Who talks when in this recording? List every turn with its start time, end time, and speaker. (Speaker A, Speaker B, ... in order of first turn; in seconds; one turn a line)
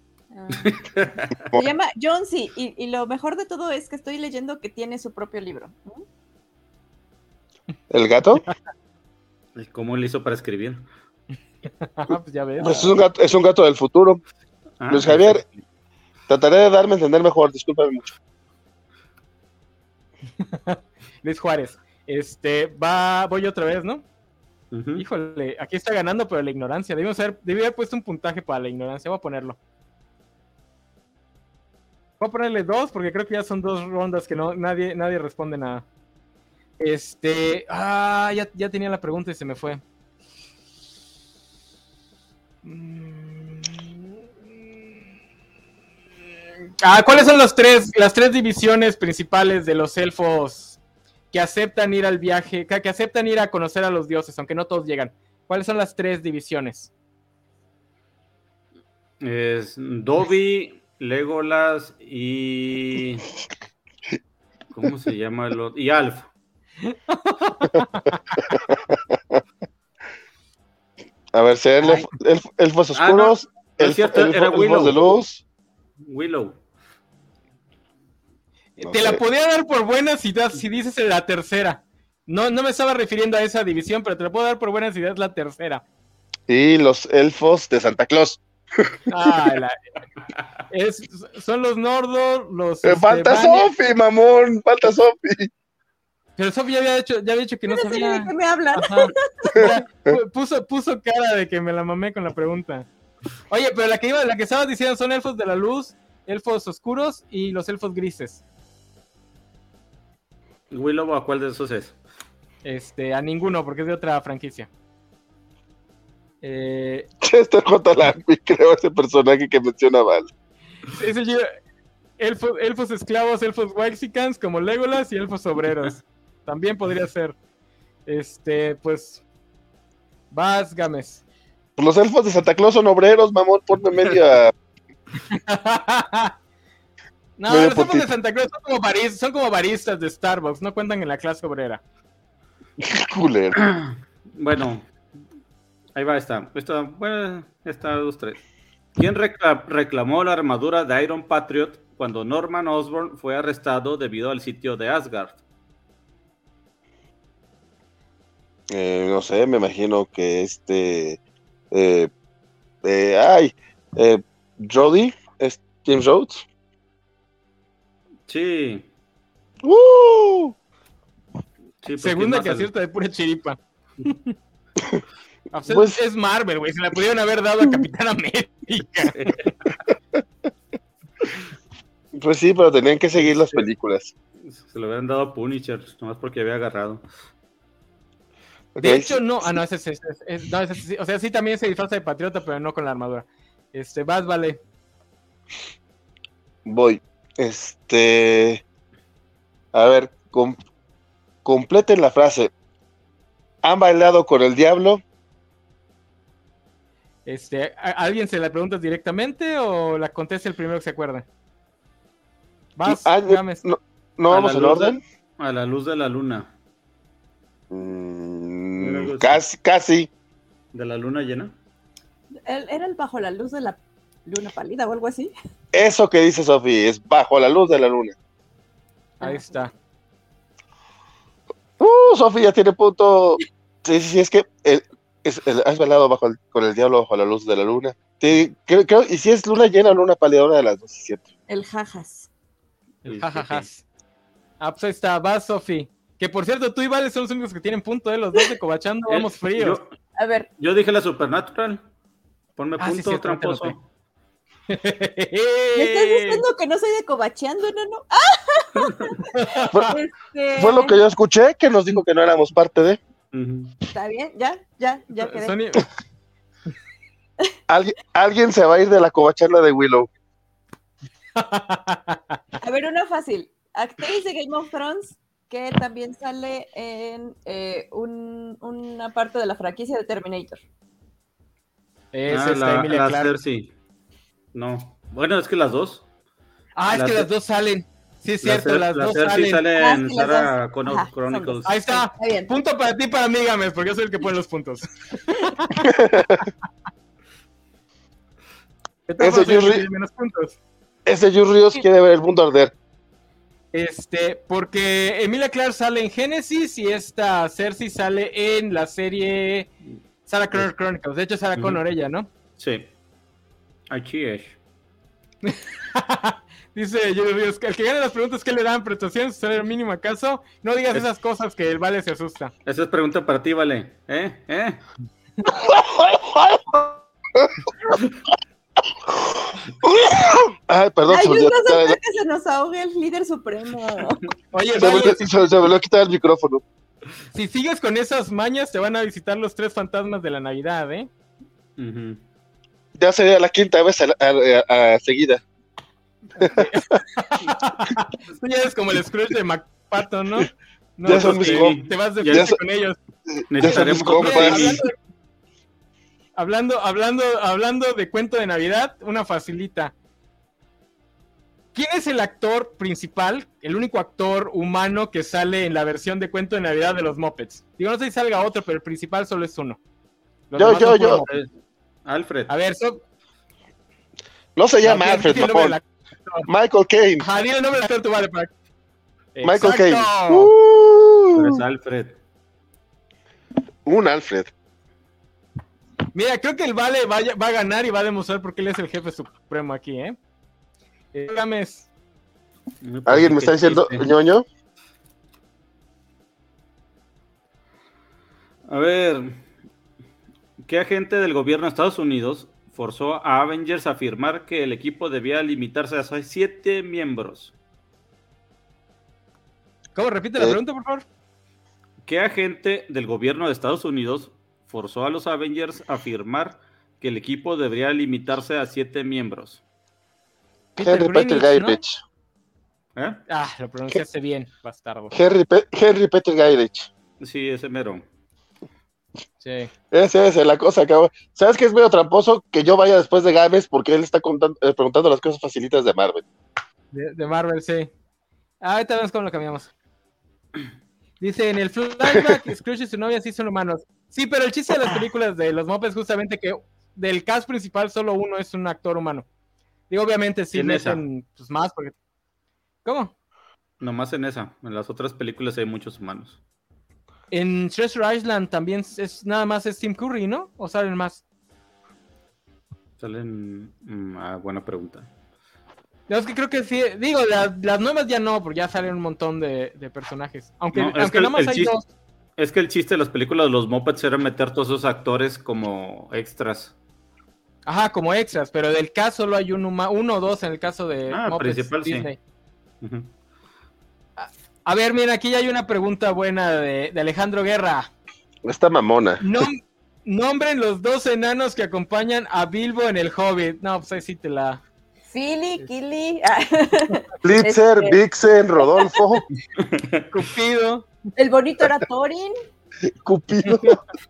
Speaker A: 0.3-0.8
Speaker B: 0.6-1.4
Speaker A: 1.5-6.0
Speaker C: 7.9-8.4
Speaker B: 9.6-10.8
Speaker D: 11.8-12.9
Speaker C: 12.6-14.2
Speaker B: 14.8-15.6
Speaker C: 14.9-15.4
Speaker C: 16.3-18.1
Speaker D: 20.4-24.1
Speaker B: 24.7-25.0
Speaker D: 25.0-29.6
Speaker D: 32.2-35.9
Speaker D: 36.8-39.8
Speaker D: 42.6-43.9
Speaker D: 46.8-50.8
Speaker D: 51.3-56.9
Speaker B: 59.2-63.3
Speaker B: 64.7-66.3
Speaker D: 66.8-68.5
Speaker C: 68.4-69.4
Speaker C: 71.3-75.4
Speaker B: 73.0-75.0
Speaker B: 76.0-76.6
Speaker D: 78.8-85.8
Speaker C: 78.8-79.2
Speaker C: 86.5-89.3
Speaker D: 89.1-89.8
Speaker D: 90.7-93.7
Speaker C: 92.8-95.5
Speaker D: 96.4-102.9
Speaker A: 97.7-99.7
Speaker C: 99.5-100.2
Speaker D: 103.5-108.4
Speaker B: 110.7-112.0
Speaker D: 112.7-114.7
Speaker D: 116.4-117.1
Speaker C: 117.2-120.3
Speaker D: 120.9-121.5
Speaker D: 122.2-127.4
Speaker D: 128.1-129.2
Speaker D: 130.3-131.2
Speaker C: 131.8-134.5
Speaker D: 135.3-136.3
Speaker D: 137.4-141.8
Speaker C: 137.5-138.1
Speaker C: 142.8-143.6
Speaker B: 143.6-144.9
Speaker B: 145.9-148.4
Speaker B: 149.0-155.4
Speaker C: 158.7-161.2
Speaker C: 161.7-162.1
Speaker C: 162.8-166.4
Speaker B: 168.3-168.9
Speaker C: 169.6-170.6
Speaker B: 171.8-172.7
Speaker D: 172.0-174.3
Speaker D: 175.5-179.3
Speaker C: 175.7-176.0
Speaker B: 179.1-179.5
Speaker C: 182.2-184.1
Speaker D: 183.2-183.6
Speaker B: 184.4-187.0
Speaker C: 188.8-189.2
Speaker D: 188.8-194.6
Speaker C: 196.7-198.6
Speaker C: 199.7-200.6
Speaker C: 201.4-202.5
Speaker C: 203.6-205.0
Speaker D: 207.3-211.2
Speaker D: 212.8-213.6
Speaker C: 212.8-215.0
Speaker B: 214.3-216.5
Speaker C: 217.7-220.1
Speaker B: 218.8-219.4
Speaker B: 220.7-221.6
Speaker A: 222.5-225.3
Speaker C: 225.7-228.2
Speaker D: 229.2-229.7
Speaker C: 231.8-241.3
Speaker A: 241.5-242.3
Speaker D: 243.1-243.8
Speaker B: 243.1-243.7
Speaker D: 244.6-249.8
Speaker B: 249.1-249.9
Speaker A: 250.2-250.5
Speaker B: 250.6-251.8
Speaker B: 252.6-253.8
Speaker D: 252.8-253.8
Speaker D: 254.7-256.4
Speaker A: 255.8-261.0
Speaker D: 259.3-259.9
Speaker C: 260.6-263.0
Speaker B: 263.3-263.8
Speaker A: 263.9-265.6
Speaker D: 265.2-265.9
Speaker C: 267.7-270.1
Speaker D: 271.4-272.4
Speaker A: 272.6-280.6
Speaker D: 282.1-283.3
Speaker B: 282.3-283.7
Speaker B: 284.5-286.0
Speaker D: 286.8-289.6
Speaker B: 286.9-287.3
Speaker B: 288.4-291.8
Speaker A: 289.8-292.5
Speaker D: 291.7-295.9
Speaker C: 295.8-296.4
Speaker D: 299.1-300.6
Speaker C: 299.2-299.9
Speaker C: 301.1-302.7
Speaker D: 303.7-309.7
Speaker D: 310.3-312.3
Speaker B: 312.6-312.9
Speaker B: 313.9-314.6
Speaker D: 315.4-322.5
Speaker B: 322.7-324.8
Speaker C: 325.5-327.5
Speaker C: 329.1-332.0
Speaker A: 331.1-334.3
Speaker D: 334.5-335.5
Speaker C: 334.7-336.6
Speaker D: 337.3-341.1
Speaker B: 341.8-342.2
Speaker C: 343.0-345.4
Speaker D: 346.4-353.0
Speaker C: 346.4-346.7
Speaker C: 351.1-352.6
Speaker B: 351.1-352.5
Speaker C: 353.3-354.8
Speaker B: 353.5-354.8
Speaker D: 353.6-354.9
Speaker D: 356.4-359.9
Speaker D: 361.8-369.8
Speaker D: 370.5-371.3
Speaker C: 370.6-371.2
Speaker B: 372.1-372.5
Speaker D: 372.5-373.0
Speaker C: 374.6-375.8
Speaker D: 374.8-376.5
Speaker C: 376.5-377.2
Speaker D: 377.2-378.5
Speaker D: 379.4-380.5
Speaker C: 379.4-381.6
Speaker B: 381.3-382.2
Speaker C: 383.9-384.5
Speaker D: 386.1-390.2
Speaker D: 391.1-391.9
Speaker B: 392.8-394.1
Speaker C: 393.1-394.4
Speaker B: 398.7-399.4
Speaker B: 400.6-407.5
Speaker D: 409.9-411.1
Speaker B: 412.1-419.6
Speaker D: 420.8-421.8
Speaker C: 420.8-422.0
Speaker D: 423.3-425.1
Speaker C: 425.1-426.9
Speaker B: 427.2-428.1
Speaker D: 429.4-429.7
Speaker C: 429.9-436.2
Speaker D: 436.9-437.9
Speaker D: 438.6-439.7
Speaker D: 441.2-449.3
Speaker D: 449.9-451.9
Speaker B: 450.5-451.0
Speaker D: 452.9-453.1
Speaker B: 453.8-456.4
Speaker D: 457.3-461.2
Speaker B: 463.0-465.1
Speaker D: 466.1-471.9
Speaker B: 470.7-471.7
Speaker B: 472.4-476.7
Speaker D: 477.7-482.2
Speaker B: 481.1-482.1
Speaker B: 482.8-483.1
Speaker D: 484.2-487.9
Speaker C: 488.4-489.2
Speaker D: 489.2-494.6
Speaker A: 495.1-498.0
Speaker C: 497.2-499.2
Speaker A: 498.6-499.0
Speaker B: 499.6-500.1
Speaker D: 500.1-500.9
Speaker A: 501.2-502.3
Speaker C: 503.0-503.8
Speaker D: 503.5-503.8